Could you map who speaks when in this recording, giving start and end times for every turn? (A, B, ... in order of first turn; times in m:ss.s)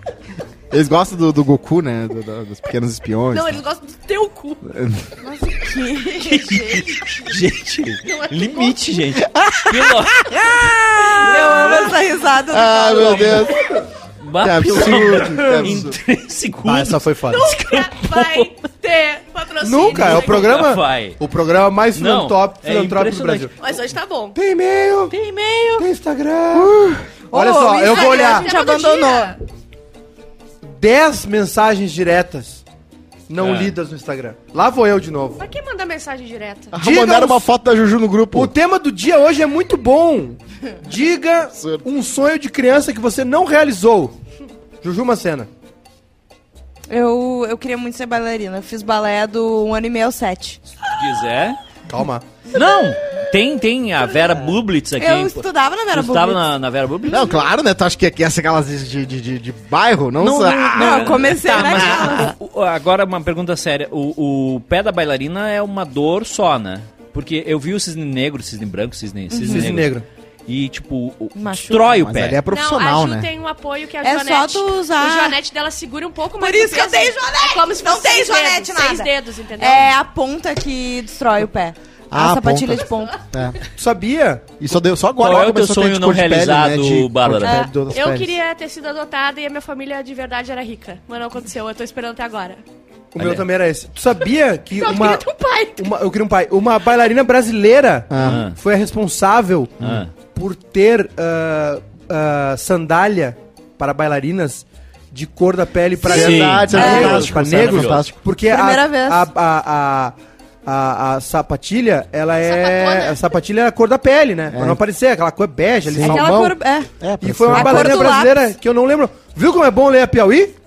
0:00.7-0:03.6 A
0:03.3-0:04.6 B
0:04.6-0:05.0 A
0:05.2-0:06.7 C
0:06.3-0:11.9 D
0:06.4-0:07.0 B
0:08.0-0:08.8 B
0:09.2-0:11.2 A
0:11.1-0:11.5 B
0:11.1-0:13.5 C
0:12.5-0:13.7 A
0:12.9-0:13.5 D
0:14.2-0:18.5 D
0:14.4-0:15.9 A
0:15.0-0:15.8 E
0:16.6-0:17.4 E
0:17.3-0:20.7 B
0:19.6-0:23.5 E
0:19.9-0:21.2 D
0:21.9-0:23.5 D
0:23.5-0:24.4 B
0:24.3-0:25.1 E
0:25.1-0:25.8 D
0:25.8-0:26.8 E
0:26.5-0:27.0 A
0:27.3-0:29.4 C
0:27.3-0:28.5 E
0:27.8-0:29.4 B
0:30.6-0:32.6 E
0:33.3-0:35.4 E
0:33.4-0:33.7 D
0:35.4-0:36.8 B
0:36.7-0:38.5 A
0:36.8-0:37.5 E
0:38.3-0:44.2 E
0:41.5-0:41.8 A
0:44.8-0:45.5 E
0:46.9-0:50.6 C
0:50.9-0:51.6 D
0:51.9-0:52.2 E
0:52.5-0:57.4 D
0:55.0-0:56.4 C
0:57.1-1:01.2 A
1:00.2-1:12.4 D
1:00.7-1:02.3 C
1:09.3-1:09.7 C
1:09.5-1:10.0 E
1:11.3-1:12.0 C
1:11.9-1:13.3 A
1:12.5-1:20.0 B
1:14.0-1:15.4 C
1:16.4-1:23.2 C
1:22.1-1:23.6 A
1:23.8-1:24.5 E
1:24.6-1:28.3 A
1:25.2-1:27.6 D
1:27.4-1:27.7 C
1:27.9-1:32.6 B
1:33.1-1:50.1 E
1:33.2-1:33.4 D
1:34.7-1:35.9 B
1:38.1-1:38.4 A
1:38.2-1:38.6 D
1:39.8-1:40.1 D
1:46.0-1:48.2 A
1:46.1-1:48.0 D
1:46.7-1:47.2 C
1:48.5-1:49.3 C
1:50.6-1:56.4 E
1:52.4-1:53.2 B
1:54.5-1:54.8 A
1:55.8-1:58.2 A
1:56.0-1:56.9 C
1:57.2-2:00.5 E
1:57.5-1:58.5 C